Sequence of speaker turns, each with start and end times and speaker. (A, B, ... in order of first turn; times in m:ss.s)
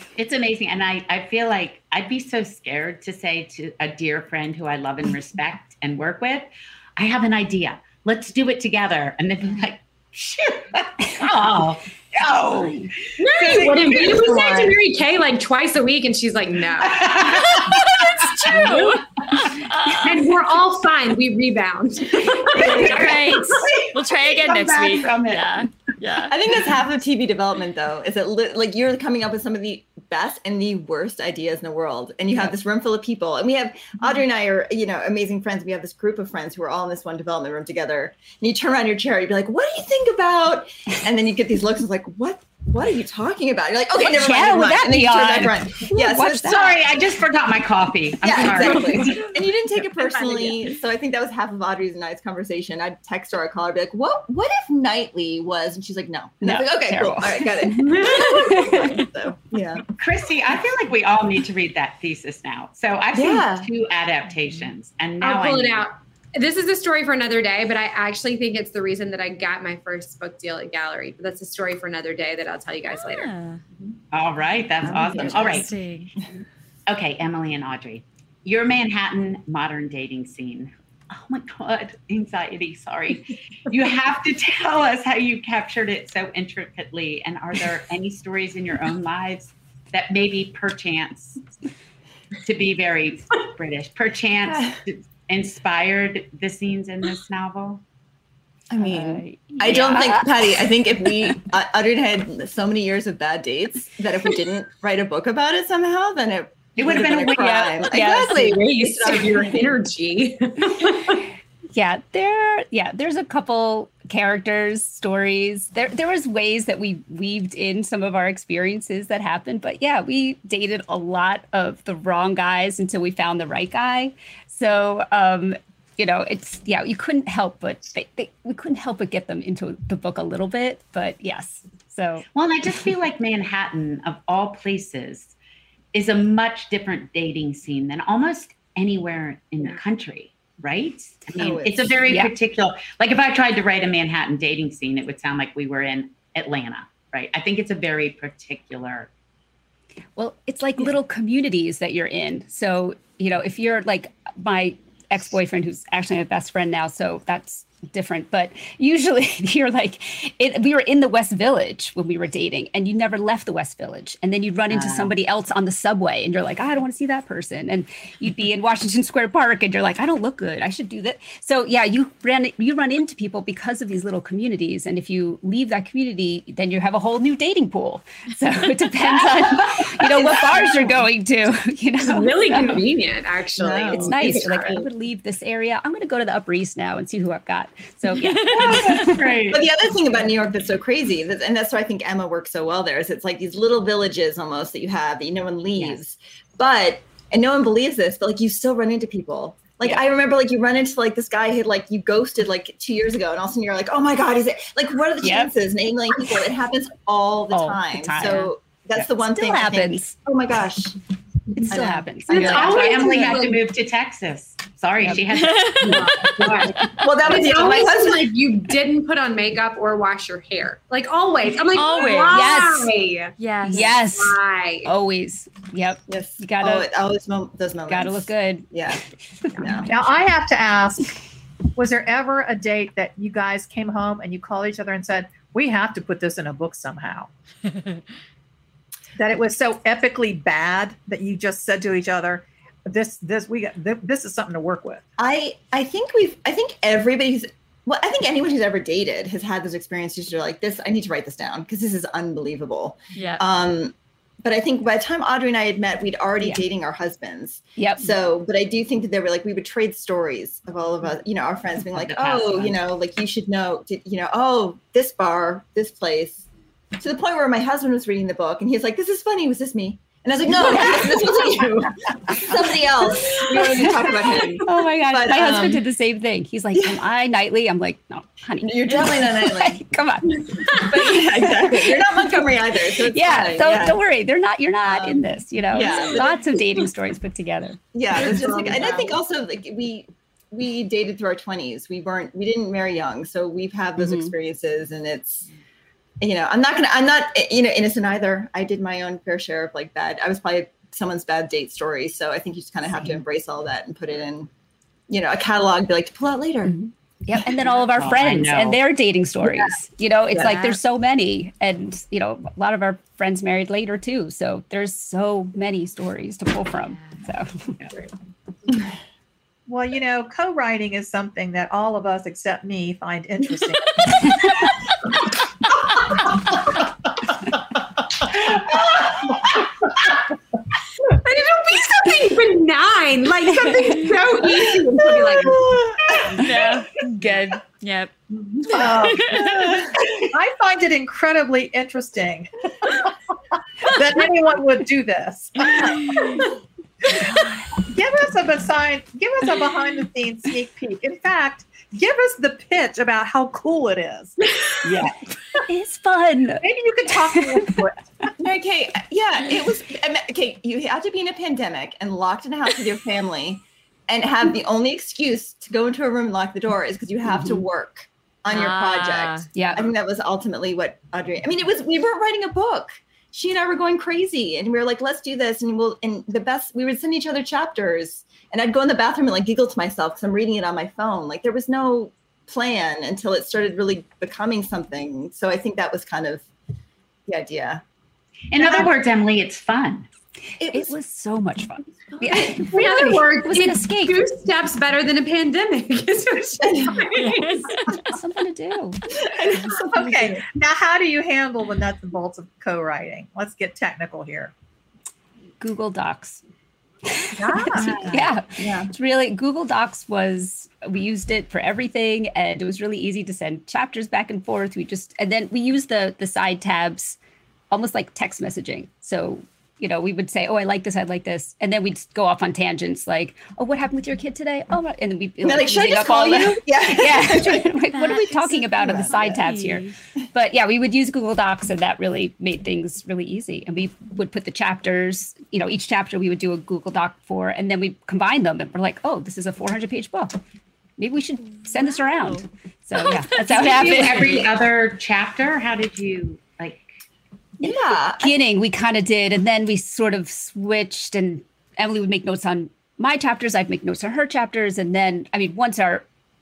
0:00.2-0:14.8 A
0:13.2-0:17.4 B
0:16.8-0:17.6 A
0:17.5-0:20.2 C
0:18.5-0:19.0 B
0:20.0-0:23.7 B
0:22.4-0:25.6 A
0:22.7-0:26.3 C
0:26.3-0:46.8 D
0:43.9-0:46.7 E
0:46.3-0:49.1 A
0:48.2-0:59.8 D
0:48.4-0:49.3 B
0:49.8-0:50.6 B
0:56.4-0:59.1 E
0:57.9-0:58.4 B
1:00.0-1:05.8 A
1:03.1-1:03.7 D
1:05.2-1:13.3 B
1:12.9-1:13.6 C
1:14.1-1:15.7 A
1:14.8-1:15.6 D
1:15.2-1:16.1 C
1:16.9-1:31.4 A
1:32.4-1:37.8 A
1:34.5-1:34.8 D
1:38.7-1:49.6 D
1:38.8-1:40.7 E
1:46.8-1:47.8 A
1:46.9-1:48.6 E
1:48.0-1:51.2 B
1:51.7-2:12.2 E
2:12.3-2:15.3 A
2:15.9-2:29.1 A
2:21.4-2:22.1 D
2:22.0-2:22.3 E
2:30.2-3:02.8 E
2:44.7-2:45.1 A
3:00.0-3:01.0 D
3:02.0-3:04.8 B
3:03.6-3:04.8 D
3:03.9-3:09.4 E
3:08.4-3:09.1 C
3:08.4-3:09.6 A
3:08.6-3:09.0 D
3:09.5-3:31.0 D
3:25.2-3:25.5 E
3:27.5-3:30.2 E
3:31.6-3:33.3 E
3:31.7-3:33.3 D
3:32.3-3:36.0 A
3:32.3-3:33.6 B
3:35.0-3:35.3 E
3:35.4-3:36.4 C
3:35.9-3:38.3 D
3:35.9-3:44.9 B
3:41.7-3:42.6 C
3:42.3-3:42.9 E
3:43.4-3:43.9 C
3:43.7-3:46.9 E
3:46.1-3:49.0 D
3:47.9-3:49.9 E
3:49.5-3:49.9 D
3:49.9-3:51.1 F
3:51.8-3:57.3 F
3:59.2-4:05.0 F
4:05.2-4:26.4 D
4:13.1-4:13.4 C
4:17.8-4:18.1 E
4:21.9-4:22.8 A
4:27.0-4:35.8 D
4:30.6-4:31.3 E
4:32.7-4:42.5 E
4:33.2-4:33.8 B
4:36.7-4:37.0 D
4:38.6-4:39.8 D
4:40.5-4:44.0 D
4:43.0-4:47.8 E
4:44.8-4:46.6 D
4:47.9-4:55.5 D
4:48.1-4:49.1 B
4:54.0-4:54.3 E
4:56.2-5:04.5 D
5:05.1-5:06.8 D
5:06.6-5:17.8 E
5:07.9-5:08.8 A
5:09.4-5:09.8 D
5:10.3-5:10.6 D
5:10.3-5:10.8 C
5:16.8-5:17.2 C
5:19.7-5:24.6 F
5:28.4-5:29.4 A
5:31.1-5:35.7 B
5:33.7-5:34.1 E
5:34.6-5:36.7 D
5:36.3-5:38.1 C
5:38.6-5:39.8 C
5:38.7-5:43.1 F
5:39.5-5:39.9 D
5:43.8-5:46.4 F
5:46.1-5:46.4 C
5:47.1-5:54.5 F
5:54.8-5:55.2 A
5:55.6-5:57.8 E
5:56.6-5:58.0 F
5:58.4-6:26.5 D
6:07.2-6:07.6 E
6:08.5-6:09.4 C
6:09.5-6:09.8 E
6:27.3-6:27.8 D
6:28.5-6:30.1 A
6:28.6-6:28.9 D
6:30.6-6:30.9 D
6:30.7-6:34.2 E
6:32.3-6:32.7 D
6:32.4-6:37.8 B
6:36.6-6:37.4 D
6:38.1-6:39.0 E
6:39.2-6:40.2 D
6:39.9-6:44.5 F
6:45.6-6:46.4 E
6:47.0-6:57.2 E
6:47.4-6:47.9 F
6:47.7-6:48.3 A
6:48.6-6:48.9 D
6:57.7-7:20.4 E
7:05.4-7:07.7 D
7:07.9-7:09.9 C
7:08.6-7:09.4 D
7:21.0-7:24.5 E
7:21.6-7:22.4 C
7:23.0-7:24.1 C
7:23.1-7:26.9 A
7:23.7-7:24.4 D
7:27.6-7:28.4 D
7:27.6-7:36.0 E